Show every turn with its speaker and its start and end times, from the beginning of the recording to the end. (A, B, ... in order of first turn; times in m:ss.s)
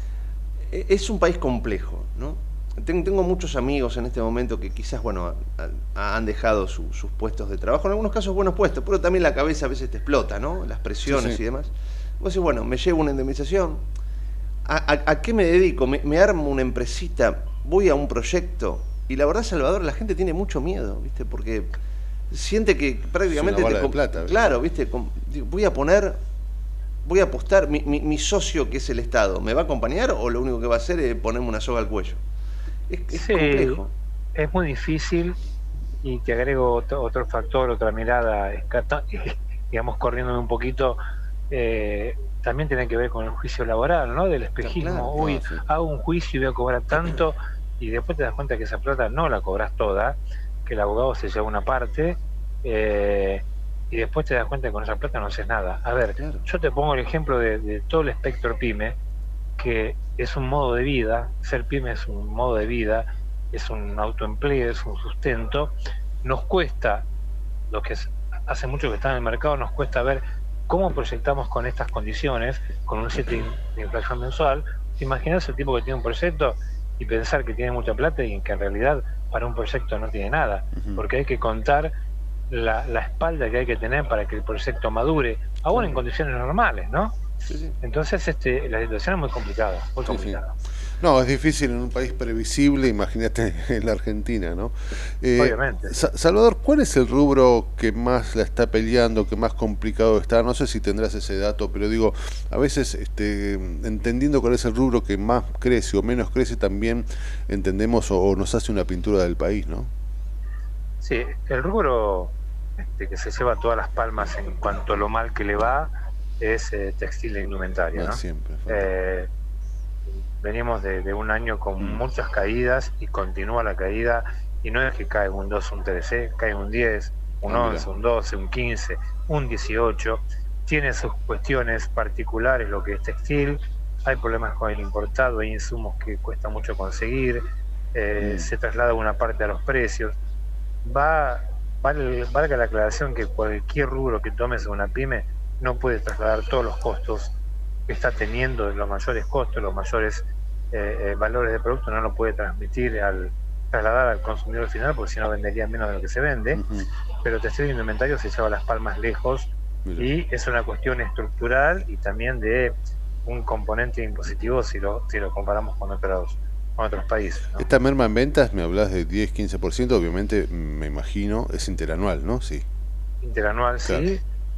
0:00.7-0:13.8 A
0:11.1-0:11.4 B
0:14.7-0:21.8 A
0:22.3-0:26.2 A
0:23.3-0:24.4 B
0:27.0-0:32.2 A
0:32.9-0:33.9 A
0:33.1-0:33.8 C
0:34.4-0:35.4 C
0:36.0-0:41.0 C
0:41.5-0:59.0 C
0:44.6-0:45.2 A
0:45.2-0:45.6 B
0:56.2-0:56.4 A
0:59.6-1:07.0 C
1:07.7-1:21.9 C
1:20.8-1:21.0 B
1:22.5-1:27.1 C
1:27.5-1:27.8 A
1:27.8-1:30.6 C
1:30.1-1:30.4 B
1:31.0-1:49.9 B
1:35.4-1:35.9 C
1:51.0-1:59.3 C
1:57.9-1:58.9 B
2:00.4-2:17.4 C
2:07.4-2:07.9 B
2:17.9-2:20.1 C
2:18.2-2:18.5 B
2:20.8-2:27.3 C
2:27.9-2:36.6 C
2:36.5-2:36.9 B
2:37.2-2:42.7 C
2:39.8-2:40.1 B
2:43.3-2:47.7 C
2:47.6-2:52.6 B
2:53.2-2:54.2 C